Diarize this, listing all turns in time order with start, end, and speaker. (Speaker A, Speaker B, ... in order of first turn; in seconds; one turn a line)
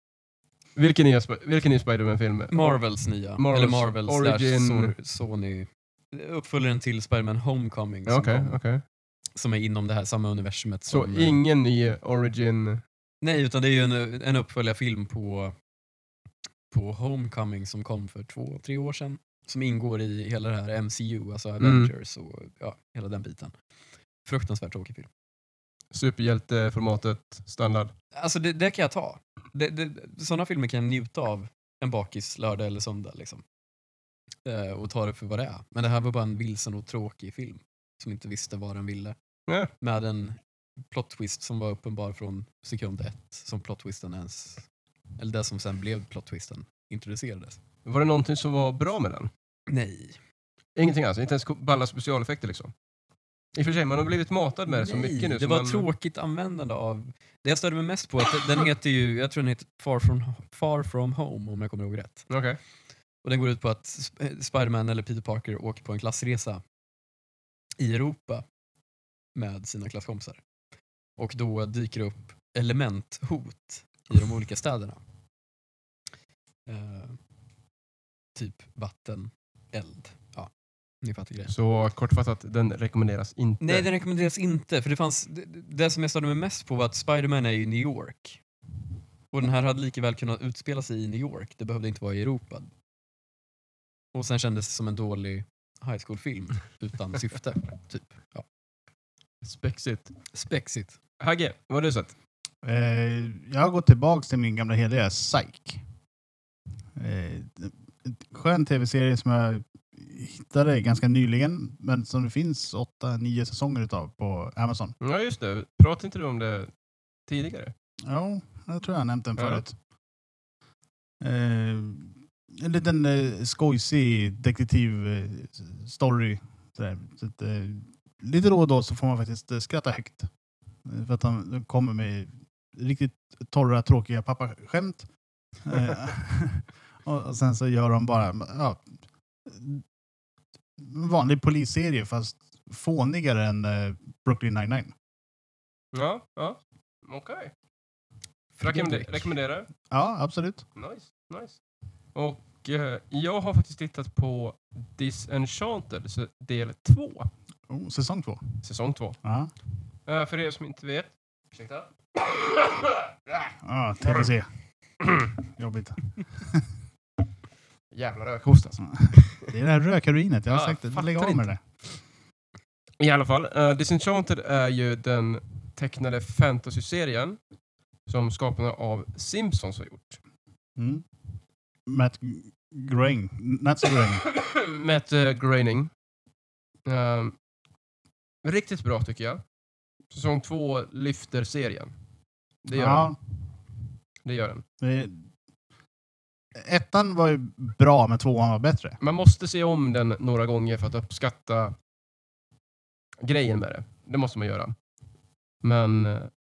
Speaker A: 0.8-4.9
Speaker B: 2.5-8.6
Speaker A: 8.1-8.8
Speaker B: 9.3-11.4
Speaker A: 10.9-12.8
Speaker B: 13.2-15.5
Speaker B: 16.7-23.5
Speaker A: 21.6-21.9
Speaker B: 24.2-25.1
Speaker A: 25.9-27.9
Speaker B: 28.1-33.4
Speaker B: 34.4-39.1
Speaker B: 39.8-40.4
Speaker B: 40.9-44.7
Speaker B: 45.2-47.6
Speaker A: 47.8-49.3
Speaker B: 49.7-50.2
Speaker A: 50.8-52.7
Speaker A: 53.5-55.9
Speaker B: 54.7-62.3
Speaker A: 62.3-62.6
Speaker B: 63.2-66.6
Speaker B: 67.8-68.4
Speaker B: 69.3-70.4
Speaker B: 71.2-75.0
Speaker B: 76.7-77.2
Speaker B: 78.3-80.5
Speaker B: 81.0-81.5
Speaker A: 81.5-83.9
Speaker B: 83.6-88.4
Speaker B: 89.3-92.7
Speaker B: 94.1-98.5
Speaker A: 99.4-100.1
Speaker B: 100.3-101.0
Speaker A: 101.2-102.1
Speaker C: 102.6-105.8
Speaker C: 107.0-114.9
Speaker A: 115.0-116.7
Speaker A: 117.3-117.7
Speaker C: 118.0-119.7
Speaker A: 119.4-119.6
Speaker C: 121.2-130.3
Speaker C: 130.8-135.1
Speaker C: 135.6-138.8
Speaker C: 139.4-139.8
Speaker C: 140.8-144.9
Speaker A: 145.9-147.5
Speaker B: 148.6-149.3
Speaker A: 148.6-149.7
Speaker C: 149.9-150.6
Speaker A: 150.8-151.6
Speaker A: 152.1-157.3
Speaker C: 157.7-158.4
Speaker A: 158.6-159.2
Speaker C: 159.2-159.5
Speaker A: 160.1-163.5
Speaker C: 163.6-164.5
Speaker C: 165.6-166.6
Speaker A: 167.9-169.5
Speaker C: 169.0-171.6
Speaker A: 170.5-171.5
Speaker A: 173.0-177.4
Speaker A: 178.1-180.2
Speaker C: 180.8-181.1
Speaker C: 181.9-184.2
Speaker A: 184.3-185.9
Speaker A: 186.8-187.3
Speaker A: 188.4-189.4
Speaker A: 190.1-191.9
Speaker A: 192.6-193.2
Speaker C: 192.7-193.2
Speaker A: 194.2-194.6
Speaker C: 194.8-195.2
Speaker C: 196.5-199.0
Speaker A: 199.0-201.7
Speaker A: 203.2-204.7
Speaker A: 205.6-206.3